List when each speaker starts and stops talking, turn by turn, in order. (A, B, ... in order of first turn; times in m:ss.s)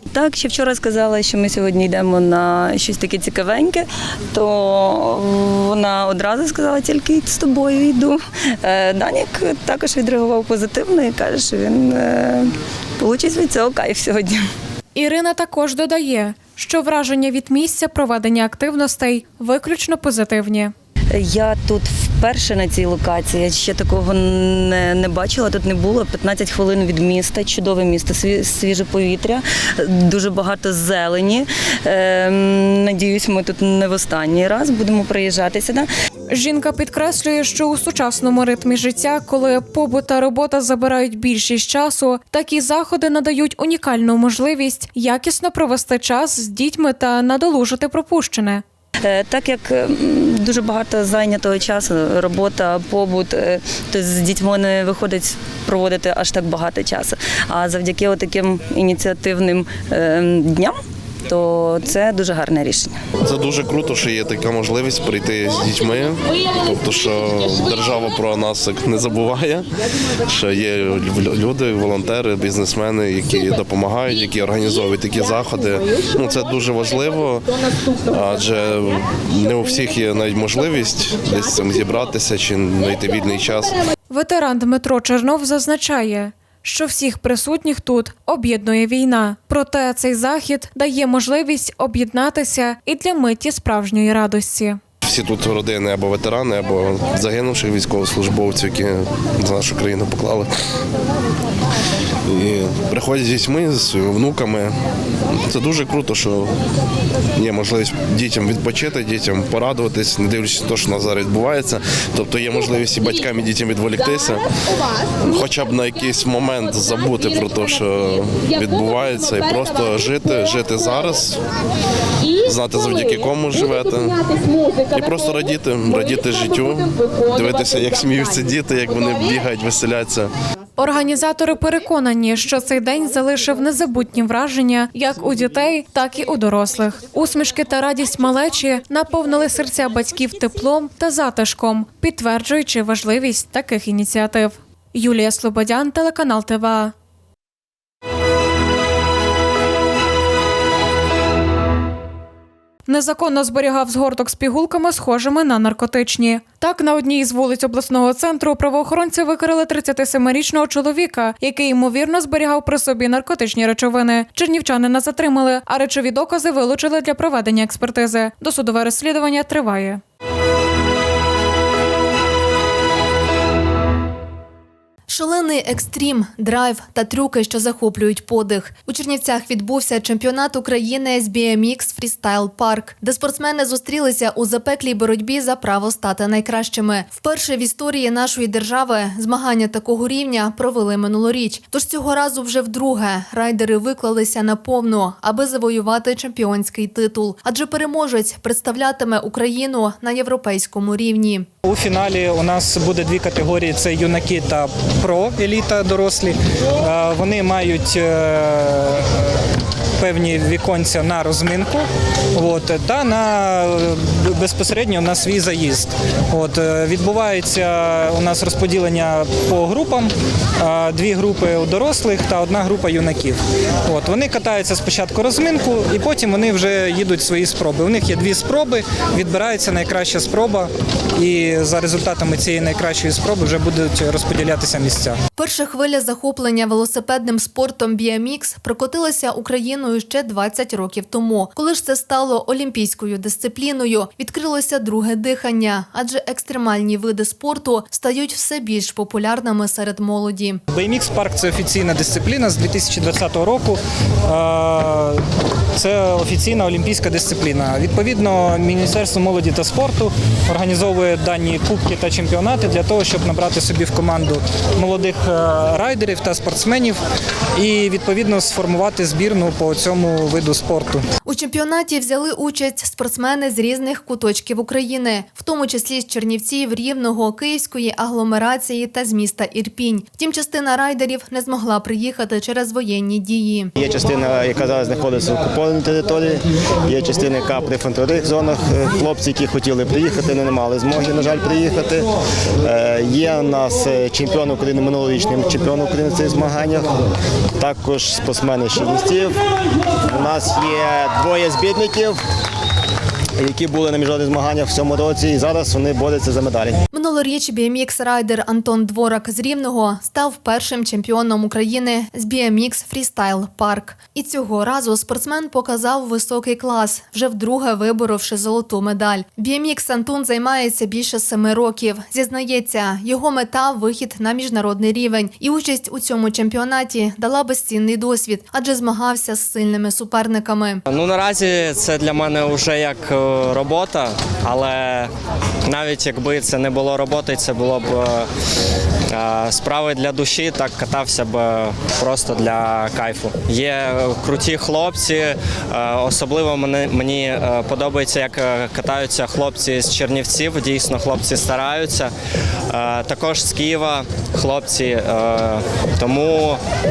0:00.1-0:14.4 A
0:15.0-0:20.7 B
0:21.1-0:35.9 A
0:36.3-0:48.6 B
0:49.0-1:00.8 A
1:01.3-1:03.0 A
1:03.2-1:09.7 C
1:10.3-1:23.8 C
1:24.1-1:34.8 B
1:35.0-1:40.5 C
1:42.3-1:44.8 C
1:45.3-1:46.5 C
1:47.4-1:54.5 C
1:55.2-2:01.4 C
2:02.4-2:04.3 C
2:04.8-2:10.3 C
2:10.8-2:26.9 B
2:32.9-2:50.0 B
2:55.1-3:21.5 D
3:21.6-3:29.2 E
3:30.0-3:55.2 E
3:55.4-4:10.6 D
4:10.7-4:15.2 E
4:15.8-4:27.0 E
4:27.6-4:31.0 E
4:31.2-4:43.7 D
4:43.8-4:52.1 F
4:52.6-4:56.9 F
4:57.6-4:59.4 F
5:00.1-5:02.2 F
5:03.4-5:06.8 F
5:06.9-5:30.8 D
5:30.9-5:35.1 G
5:35.7-5:38.3 G
5:39.1-5:52.1 G
5:52.7-5:56.6 G